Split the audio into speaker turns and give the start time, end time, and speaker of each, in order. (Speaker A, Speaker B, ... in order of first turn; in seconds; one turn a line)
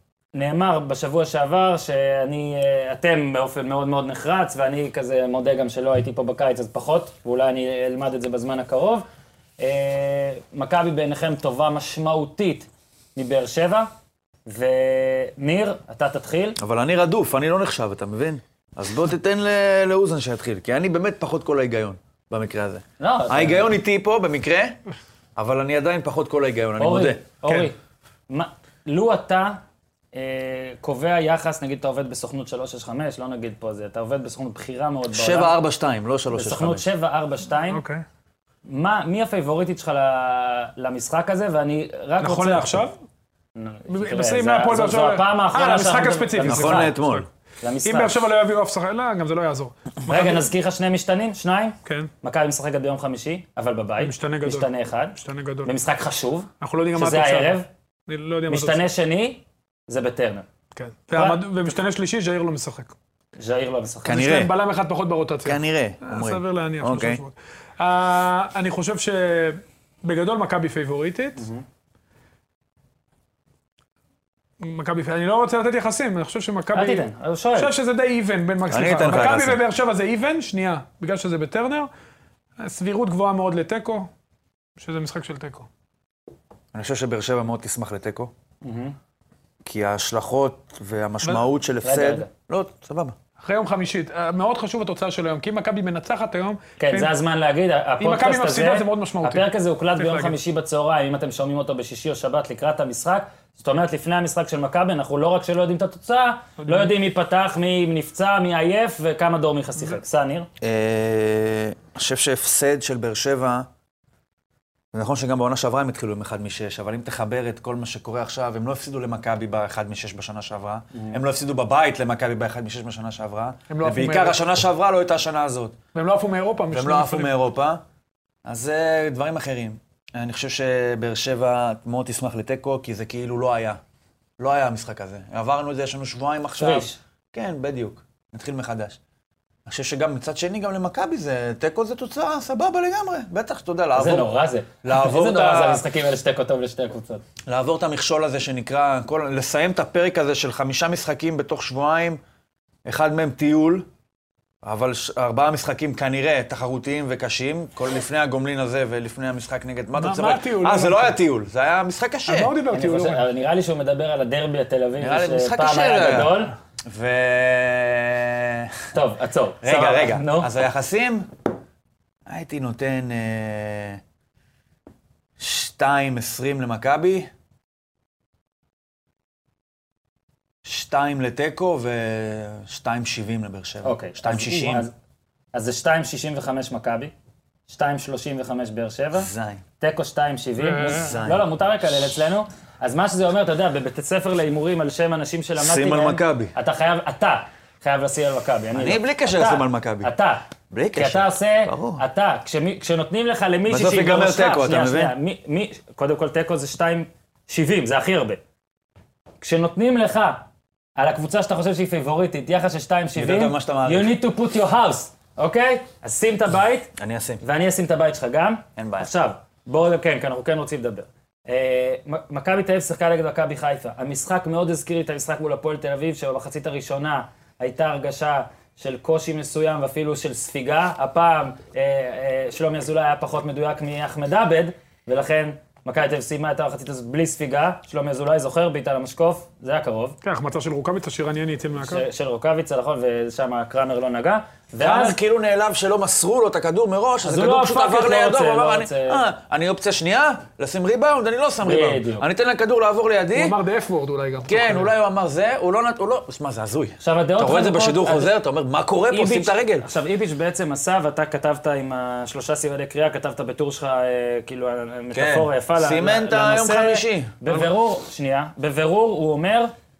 Speaker A: 0.3-9.0
Speaker A: 9.6-13.9
Speaker A: 14.5-16.6
Speaker B: 16.6-24.8
Speaker A: 23.0-23.7
Speaker B: 25.4-27.7
Speaker A: 26.8-27.8
Speaker A: 28.3-29.6
Speaker A: 30.1-35.5
Speaker B: 35.1-36.9
Speaker A: 36.3-37.8
Speaker C: 37.7-38.0
Speaker A: 38.6-42.8
Speaker C: 42.2-42.9
Speaker A: 43.5-47.0
Speaker C: 43.9-47.2
Speaker B: 46.4-47.2
Speaker A: 47.6-48.2
Speaker C: 47.8-50.5
Speaker A: 50.0-57.7
Speaker C: 51.8-52.1
Speaker C: 54.0-55.7
Speaker C: 56.6-58.8
Speaker A: 58.5-60.5
Speaker C: 60.7-62.9
Speaker A: 61.1-61.4
Speaker A: 63.4-64.2
Speaker B: 64.0-64.5
Speaker C: 64.1-71.4
Speaker B: 65.4-67.2
Speaker A: 71.4-71.6
Speaker C: 74.6-81.9
Speaker A: 76.7-77.7
Speaker B: 78.7-79.6
Speaker C: 82.6-84.1
Speaker C: 84.8-85.7
Speaker B: 86.7-88.3
Speaker A: 88.6-89.0
Speaker B: 89.6-93.1
Speaker A: 91.8-92.3
Speaker C: 93.4-97.1
Speaker A: 96.8-110.5
Speaker C: 98.0-100.3
Speaker C: 106.6-106.9
Speaker B: 110.6-113.7
Speaker B: 114.9-125.8
Speaker C: 123.7-124.4
Speaker C: 125.9-127.3
Speaker B: 126.7-127.8
Speaker B: 128.4-133.8
Speaker B: 134.4-139.0
Speaker A: 136.6-137.0
Speaker B: 139.7-145.8
Speaker A: 143.9-147.2
Speaker B: 147.4-152.2
Speaker B: 152.8-153.8
Speaker B: 154.6-162.5
Speaker C: 160.0-161.1
Speaker C: 162.2-163.2
Speaker A: 162.7-166.5
Speaker B: 165.0-168.8
Speaker A: 168.9-170.5
Speaker B: 169.6-171.3
Speaker B: 172.3-174.0
Speaker B: 175.4-177.3
Speaker B: 180.6-184.8
Speaker A: 183.8-184.9
Speaker A: 185.5-187.1
Speaker A: 187.7-189.3
Speaker B: 189.2-189.6
Speaker A: 189.8-208.4
Speaker C: 190.6-191.1
Speaker B: 190.9-191.4
Speaker B: 195.6-196.5
Speaker B: 198.8-200.1
Speaker B: 200.7-202.0
Speaker B: 203.7-205.1
Speaker A: 209.4-210.4
Speaker A: 211.0-240.2
Speaker B: 213.2-214.1
Speaker B: 217.0-217.4
Speaker B: 218.8-219.1
Speaker C: 240.2-242.0
Speaker A: 241.8-245.2
Speaker B: 244.8-253.6
Speaker A: 247.2-249.2
Speaker A: 251.6-252.2
Speaker C: 253.3-254.9
Speaker B: 254.4-259.9
Speaker A: 257.0-258.3
Speaker A: 259.1-269.7
Speaker B: 265.1-267.7